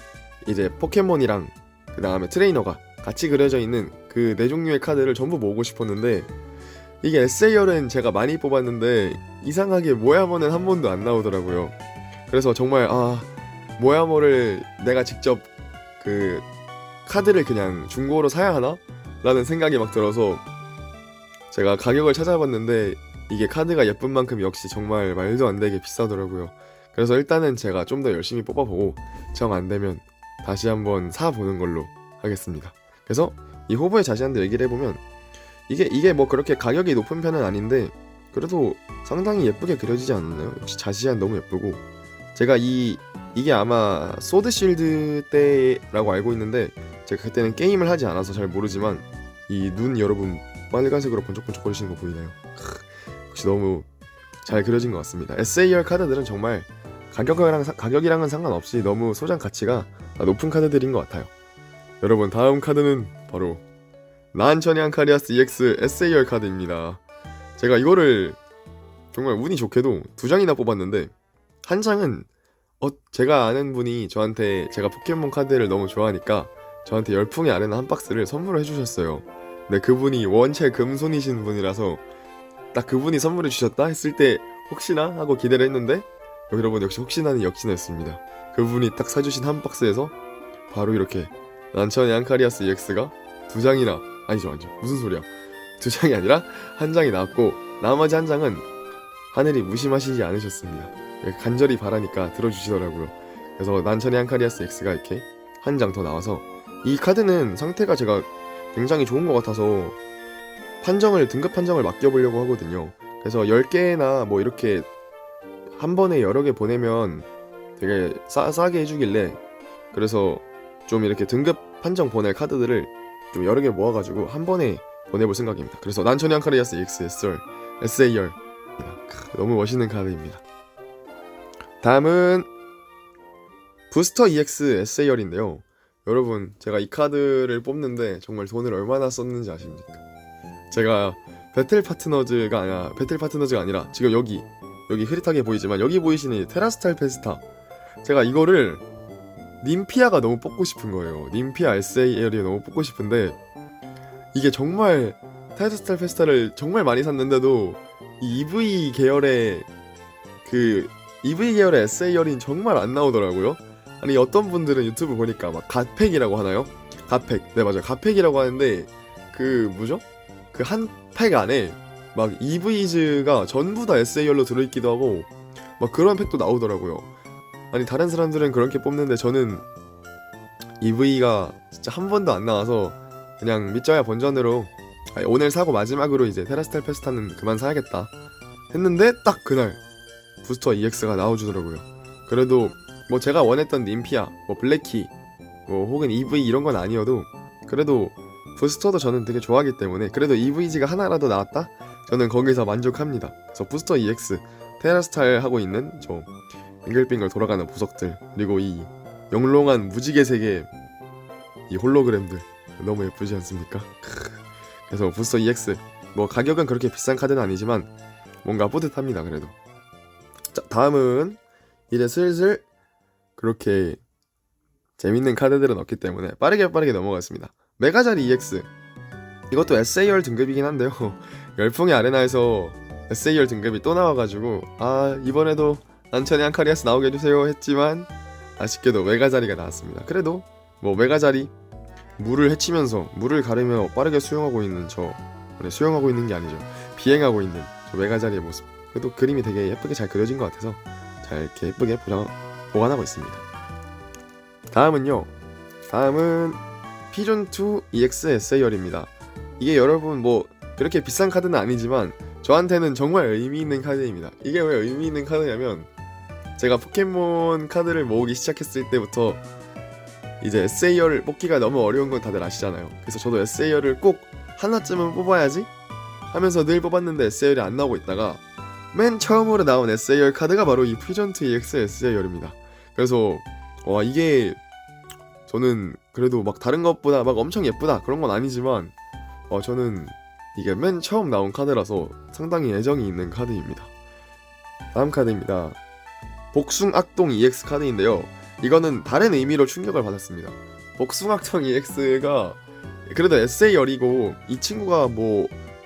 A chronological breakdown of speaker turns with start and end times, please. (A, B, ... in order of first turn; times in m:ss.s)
0:00.4-0:06.3 A
0:07.0-0:11.8 A
0:12.3-0:15.5 A
0:16.0-0:16.5 A
0:17.1-0:20.4 A
0:21.5-0:35.0 A
0:35.7-0:41.8 A
0:42.4-0:53.9 A
0:54.4-1:01.3 A
1:02.0-1:03.6 A
1:04.3-1:07.0 A
1:07.6-1:08.4 A
1:09.1-1:11.1 A
1:11.6-1:12.3 A
1:12.8-1:22.0 A
1:22.7-1:30.1 A
1:30.7-1:38.7 A
1:39.3-1:50.0 A
1:50.8-1:54.9 A
1:55.8-1:59.4 A
1:59.9-2:10.4 A
2:11.8-2:12.5 A
2:13.9-2:20.0 A
2:20.7-2:27.4 A
2:28.0-2:28.8 A
2:29.6-2:33.4 A
2:34.3-2:39.7 A
2:40.4-2:57.1 A
2:57.7-2:59.6 A
3:00.8-3:08.1 A
3:08.7-3:09.8 A
3:10.4-3:15.1 A
3:15.7-3:26.3 A
3:26.8-3:30.7 A
3:31.7-3:37.9 A
3:38.4-3:39.6 A
3:40.5-3:41.4 A
3:41.9-3:42.6 A
3:43.4-3:44.0 A
3:45.0-3:48.7 A
3:49.5-4:01.5 A
4:02.2-4:13.4 A
4:14.7-4:15.3 A
4:15.9-4:25.9 A
4:26.6-4:29.4 A
4:30.4-4:35.7 A
4:36.3-4:44.6 A
4:45.5-4:48.9 A
4:49.5-4:53.9 A
4:54.9-4:55.8 A
4:56.5-5:05.6 A